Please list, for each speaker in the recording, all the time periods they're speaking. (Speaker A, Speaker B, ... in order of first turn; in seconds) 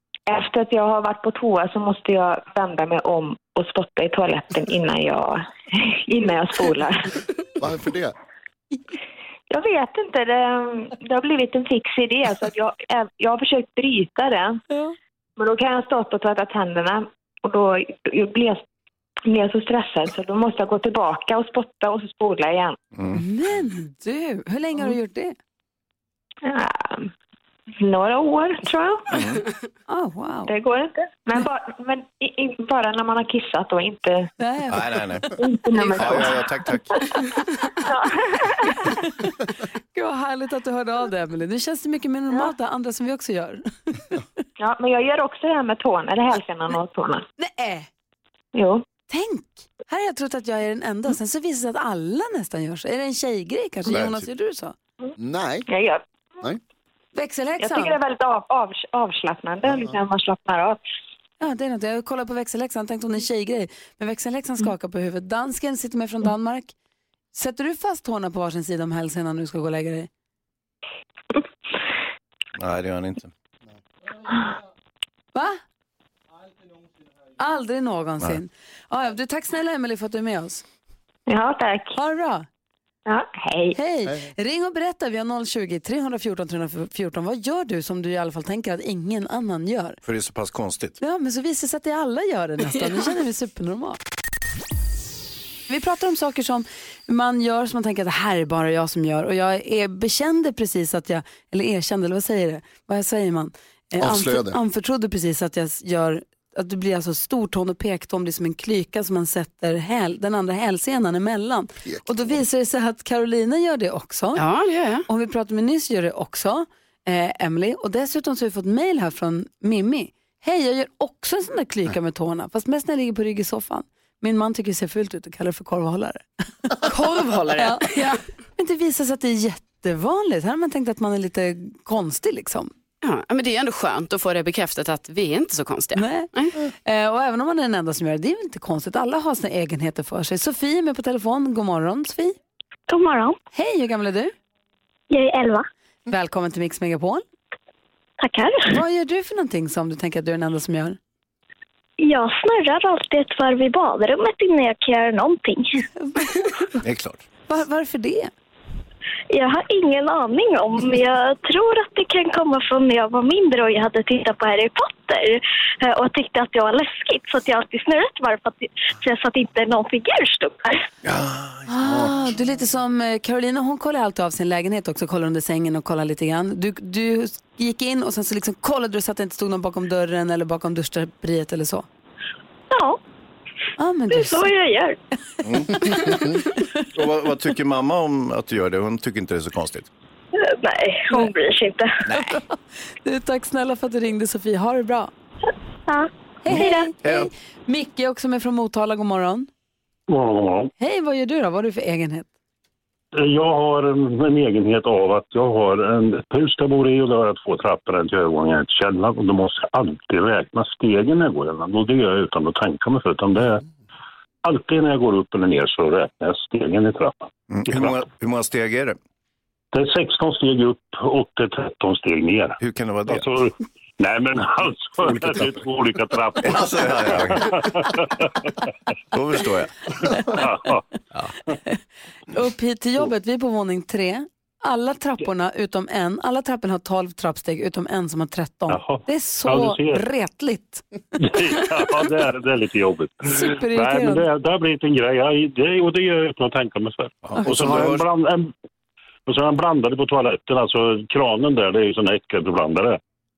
Speaker A: 0.3-7.1, 9.5-14.6, 15.4-18.6, 19.3-22.8, 26.5-27.1, 27.8-29.2, 30.5-34.3, 35.4-36.4, 37.8-38.9, 44.6-47.2, 48.5-48.9, 55.7-56.0, 57.6-60.8, 81.3-82.0, 83.1-83.8
Speaker B: 7.6-8.1, 55.2-55.7, 104.0-104.6, 111.8-112.4, 171.8-172.1
Speaker C: 23.1-25.4, 29.9-30.5, 34.4-34.8, 39.9-44.2, 47.4-47.9, 49.1-54.8, 57.1-58.0, 61.4-66.7, 67.3-70.1, 75.3-75.6, 77.4-80.6, 81.9-82.5, 83.7-90.0, 91.0-94.0, 95.7-114.4, 115.1-126.2, 127.6-127.9, 128.6-132.7, 135.9-142.4, 143.5-144.3, 146.1-147.2, 148.7-151.0, 156.0-156.6, 157.5-158.3, 171.7-181.9, 183.8-184.5, 192.2-192.4, 193.0-195.1, 196.4-199.5, 200.8-202.3, 232.3-240.8, 243.3-244.3, 247.4-247.8
Speaker D: 29.1-29.4, 34.7-37.0, 53.9-54.3, 72.6-73.3, 90.0-91.0, 156.8-157.2, 171.1-171.7, 185.4-185.8, 186.9-189.9, 192.1-192.4, 196.5-197.3, 217.5-219.0, 222.6-223.3, 226.4-227.6, 229.1-229.7, 247.3-248.1
Speaker E: 114.4-115.0, 126.8-128.2, 133.0-136.5
Speaker F: 142.9-143.4, 145.1-145.6, 148.2-148.7, 152.0-155.8, 159.3-170.8, 184.1-185.0, 190.6-191.9, 195.9-196.9
Speaker G: 200.1-200.7, 203.2-213.6, 214.4-217.1, 219.7-222.6, 223.1-227.9, 230.4-230.8, 238.7-240.1, 241.2-248.5, 249.3-253.0